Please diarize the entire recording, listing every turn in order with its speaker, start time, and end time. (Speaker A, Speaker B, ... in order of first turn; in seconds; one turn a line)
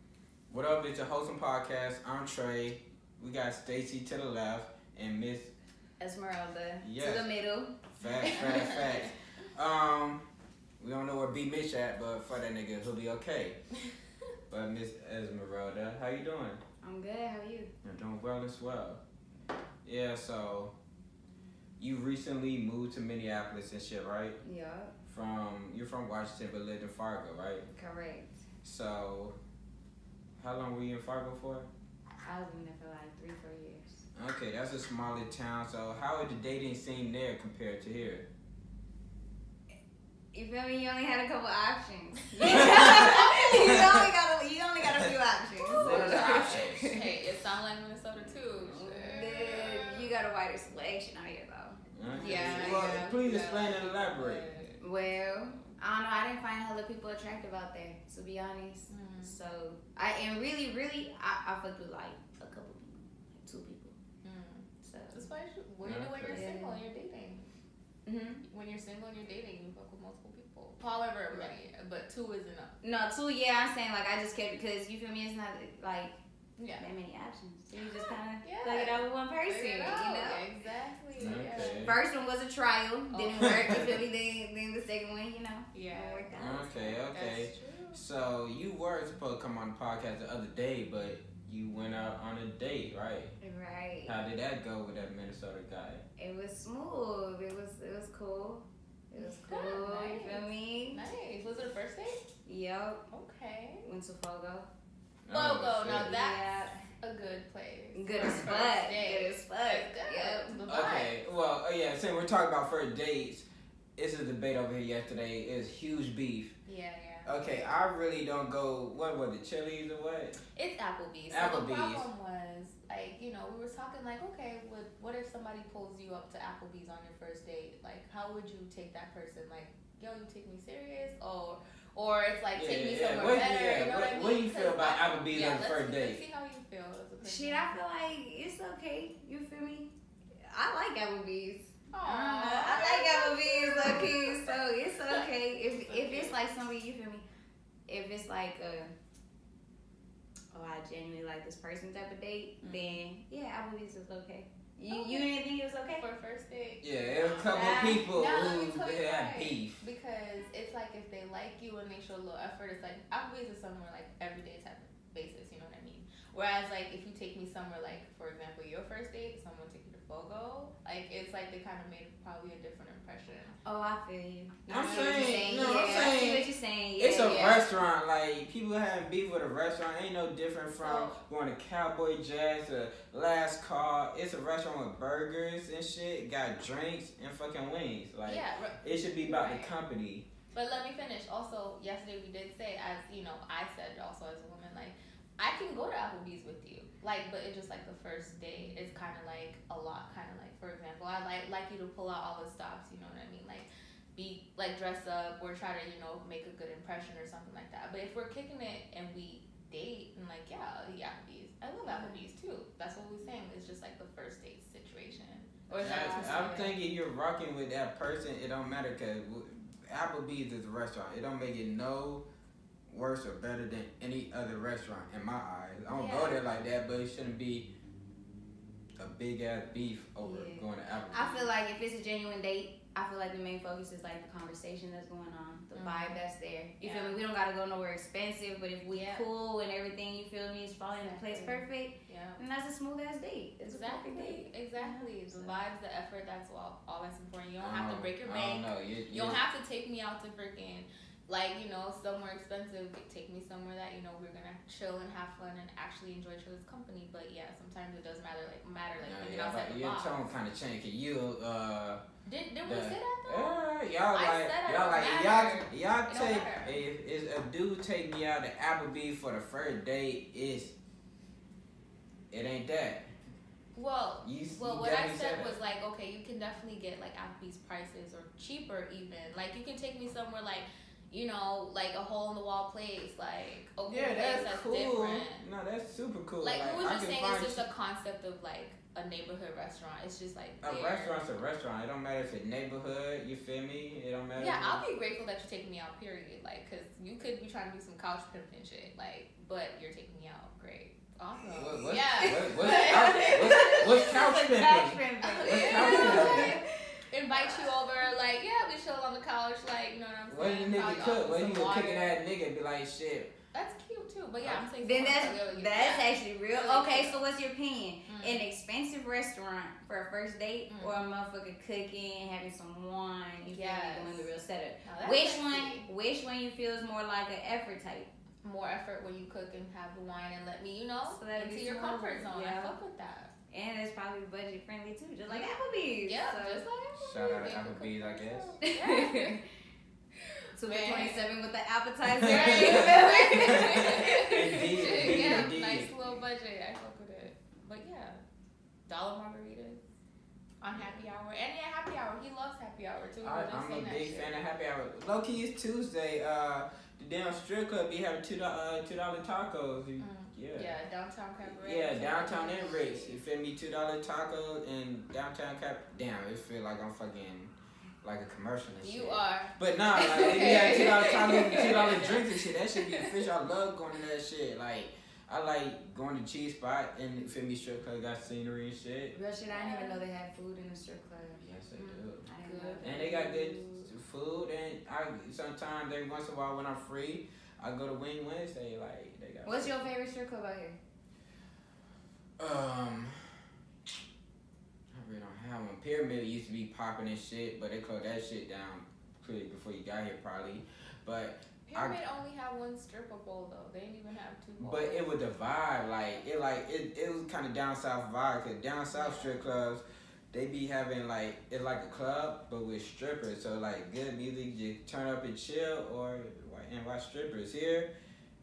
Speaker A: 0.5-5.5
Speaker B: 6.0-8.8
Speaker A: 6.8-7.3
Speaker A: 7.9-10.2
Speaker C: 8.2-9.1
Speaker A: 10.8-13.6
Speaker A: 14.5-16.6
Speaker B: 16.8-17.7
Speaker A: 17.8-19.0
Speaker A: 19.8-20.7
Speaker A: 21.8-24.4
Speaker B: 24.4-24.9
Speaker A: 25.1-27.7
Speaker B: 27.7-28.4
Speaker A: 28.6-29.4
Speaker A: 30.4-31.7
Speaker B: 32.2-34.0
Speaker A: 34.2-38.3
Speaker B: 40.3-47.0
Speaker A: 42.5-44.0
Speaker C: 42.5-43.1
Speaker A: 44.8-45.1
Speaker C: 45.6-50.1
Speaker A: 45.8-47.0
Speaker B: 48.8-53.0
Speaker A: 51.9-54.5
Speaker C: 52.2-54.8
Speaker B: 54.8-64.0
Speaker C: 58.9-59.4
Speaker C: 64.2-67.5
Speaker B: 64.8-65.2
Speaker A: 65.8-66.5
Speaker B: 66.3-66.9
Speaker B: 68.1-68.4
Speaker C: 68.5-72.8
Speaker B: 72.8-76.2
Speaker C: 76.6-76.9
Speaker B: 76.8-80.4
Speaker C: 77.9-81.9
Speaker A: 81.2-82.0
Speaker B: 81.3-87.0
Speaker C: 83.1-83.9
Speaker A: 83.4-83.9
Speaker C: 85.7-86.3
Speaker A: 86.3-93.3
Speaker C: 87.1-88.0
Speaker B: 93.4-94.2
Speaker A: 94.1-96.0
Speaker B: 96.2-101.0
Speaker C: 99.2-102.2
Speaker B: 102.5-103.0
Speaker C: 103.1-103.9
Speaker B: 103.8-104.7
Speaker A: 105.2-106.1
Speaker C: 105.3-111.1
Speaker B: 106.1-106.8
Speaker B: 108.0-110.6
Speaker A: 110.7-116.5
Speaker C: 116.7-117.3
Speaker A: 117.3-120.4
Speaker C: 120.5-137.7
Speaker A: 121.3-122.1
Speaker A: 132.5-136.2
Speaker B: 137.2-139.9
Speaker B: 140.5-147.2
Speaker C: 141.9-146.3
Speaker B: 147.9-148.9
Speaker B: 150.5-156.0
Speaker C: 152.6-153.0
Speaker C: 154.9-155.3
Speaker C: 155.9-173.6
Speaker A: 156.8-159.8
Speaker B: 157.5-158.0
Speaker B: 173.7-177.5
Speaker C: 174.7-176.3
Speaker A: 174.7-190.3
Speaker C: 177.2-177.7
Speaker C: 180.8-181.2
Speaker C: 188.3-189.7
Speaker C: 190.5-216.8
Speaker B: 211.8-212.2
Speaker B: 215.7-216.7
Speaker A: 215.8-222.2
Speaker A: 222.9-227.7
Speaker C: 225.9-226.4
Speaker A: 229.0-231.5
Speaker B: 230.2-245.5
Speaker C: 235.7-236.3
Speaker C: 236.8-237.2
Speaker C: 238.9-239.2
Speaker C: 241.0-242.4
Speaker C: 243.7-260.2
Speaker A: 247.6-249.4
Speaker A: 259.0-262.0
Speaker C: 262.3-263.6
Speaker A: 262.6-270.8
Speaker C: 264.1-266.8
Speaker A: 272.3-273.1
Speaker C: 273.8-285.4
Speaker A: 274.2-275.6
Speaker A: 283.9-287.6
Speaker C: 286.4-291.2
Speaker A: 290.6-294.8
Speaker C: 294.4-304.2
Speaker A: 301.5-306.6
Speaker B: 302.2-306.6
Speaker C: 305.2-306.6
Speaker C: 307.1-312.2
Speaker B: 307.3-307.7
Speaker A: 310.3-313.3
Speaker C: 313.5-317.2
Speaker B: 314.8-328.1
Speaker C: 318.1-318.4
Speaker C: 320.7-321.0
Speaker C: 323.5-324.3
Speaker C: 324.8-325.9
Speaker C: 328.4-333.3
Speaker B: 331.1-332.8
Speaker B: 333.5-336.6
Speaker C: 335.3-335.5
Speaker C: 336.1-339.4
Speaker A: 337.0-338.6
Speaker B: 338.6-339.4
Speaker B: 340.6-345.5
Speaker C: 340.6-341.3
Speaker A: 342.2-345.9
Speaker C: 342.2-348.2
Speaker C: 348.9-349.8
Speaker C: 350.6-354.3
Speaker A: 353.2-360.7
Speaker C: 360.0-363.2
Speaker A: 361.5-367.5
Speaker A: 368.0-379.2
Speaker C: 368.8-373.3
Speaker B: 370.1-371.5
Speaker B: 379.1-383.9
Speaker C: 379.5-380.0
Speaker A: 381.4-382.3
Speaker C: 382.4-383.2
Speaker A: 382.8-389.8
Speaker B: 389.4-390.8
Speaker A: 392.4-393.2
Speaker A: 394.9-402.0
Speaker C: 401.7-405.1
Speaker A: 404.6-417.9
Speaker C: 408.9-409.4